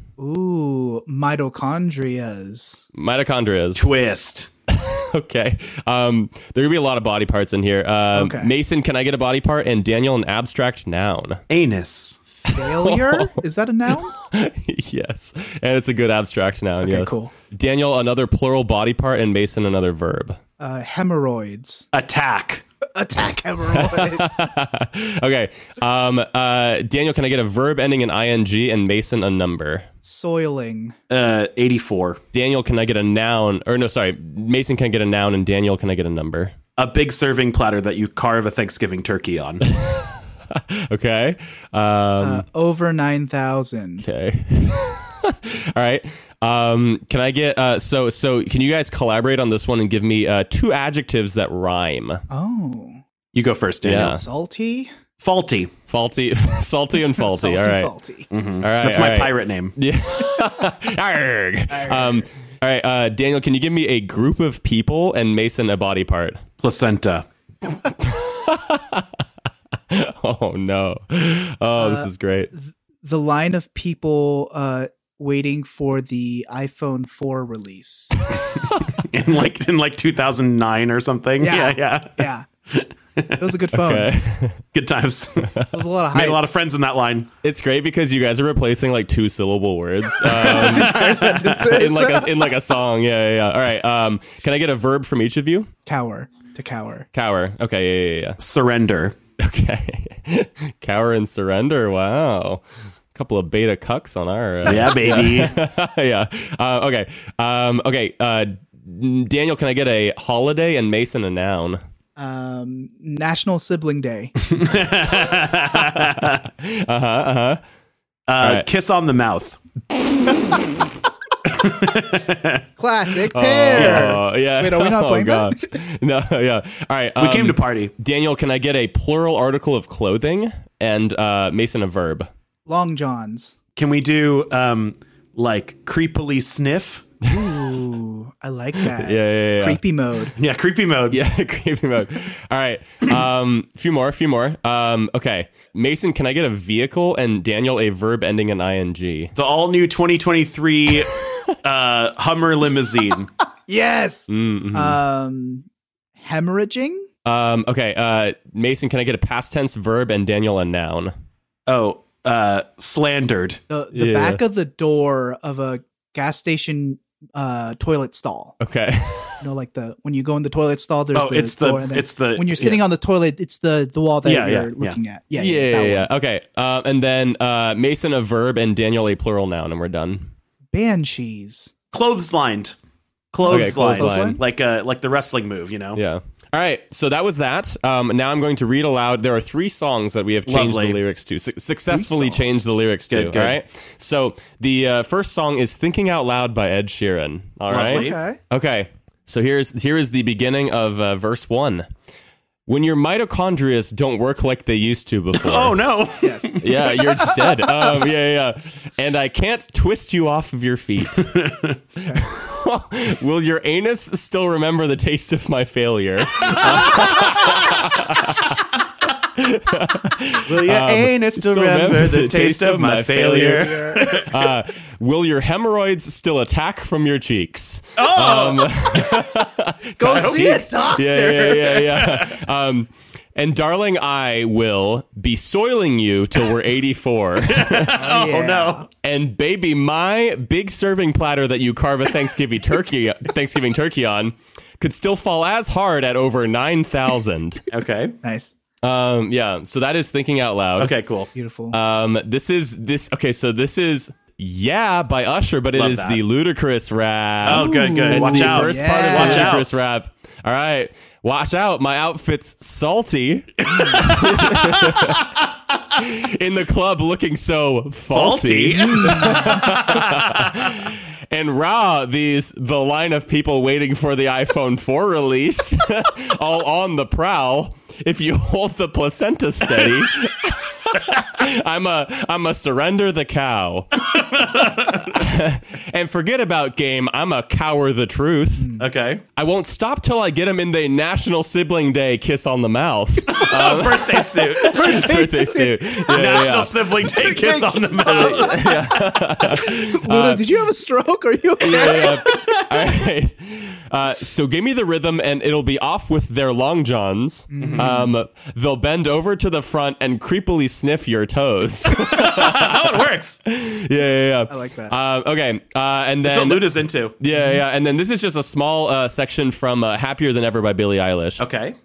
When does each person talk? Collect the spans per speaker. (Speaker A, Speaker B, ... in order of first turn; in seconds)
Speaker A: 0.2-2.8, 8.1-8.5, 12.5-14.1, 16.8-17.3, 20.6-21.9, 22.9-24.4, 30.0-30.9, 42.2-44.1, 52.3-53.0, 53.9-54.9, 57.1-58.3, 61.7-62.3, 71.8-78.1, 81.4-82.5, 83.4-84.2, 85.7-86.4, 90.4-92.5, 95.9-97.1, 112.2-114.3, 122.8-125.8, 132.7-133.6, 137.3-140.4, 153.7-155.7, 156.2-157.1, 163.7-168.6, 169.4-176.1, 180.7-181.7, 183.4-184.4, 191.9-192.3, 197.9-198.4, 206.2-207.9, 223.6-224.1, 230.0-232.0, 237.9-238.9, 248.2-248.5, 251.3-251.8, 257.6-259.7, 269.2-269.6, 288.6-288.9, 294.6-302.7, 307.5-308.1, 314.5-314.9, 317.3-317.6
Speaker B: 3.0-3.9, 4.7-11.4, 12.5-13.3, 14.1-20.4, 23.7-29.9, 32.3-36.5, 39.6-42.4, 44.0-52.2, 53.8-54.2, 55.9-57.9, 58.6-66.4, 68.0-69.2, 69.9-72.5, 83.7-84.6, 85.4-85.7, 87.4-91.1, 91.6-95.7, 97.1-98.4, 99.4-102.6, 103.1-111.8, 116.0-117.6, 118.4-118.7, 123.3-132.3, 137.2-137.8, 138.8-139.8, 141.1-149.3, 154.3-155.0, 157.2-161.1, 163.9-164.4, 168.6-169.5, 175.3-180.3, 183.5-184.4, 186.0-201.9, 202.7-205.8, 206.6-211.4, 212.1-218.6, 219.3-238.0, 239.0-247.6, 248.8-250.9, 251.7-265.3, 266.0-284.1, 285.1-288.8, 289.4-296.8, 298.1-300.5, 301.6-321.4
Speaker C: 3.8-4.5, 11.5-12.2, 21.9-22.6, 31.1-32.2, 36.8-39.7, 53.3-54.2, 55.2-55.7, 58.3-59.8, 66.6-67.3, 78.9-83.5, 84.7-85.5, 86.1-87.3, 90.2-91.7, 98.4-99.2, 104.7-105.5, 114.4-116.5, 118.3-119.6, 121.5-122.7, 123.7-124.2, 127.2-127.9, 133.8-137.1, 140.4-141.2, 149.4-153.3, 161.7-163.6, 171.1-172.8, 174.2-175.0, 181.9-182.8, 183.3-186.0, 190.5-191.0, 193.1-193.6, 197.7-198.2, 205.3-207.0, 211.2-211.8, 220.5-224.5, 228.0-229.3, 230.1-230.6, 232.0-232.2, 237.4-238.9, 247.7-248.2, 250.8-251.3, 255.7-256.2, 257.4-259.9, 263.6-265.2, 268.1-270.7, 284.1-285.2, 288.8-289.2, 293.3-298.9, 307.6-307.9, 311.9-313.4, 316.2-317.2, 321.4-321.8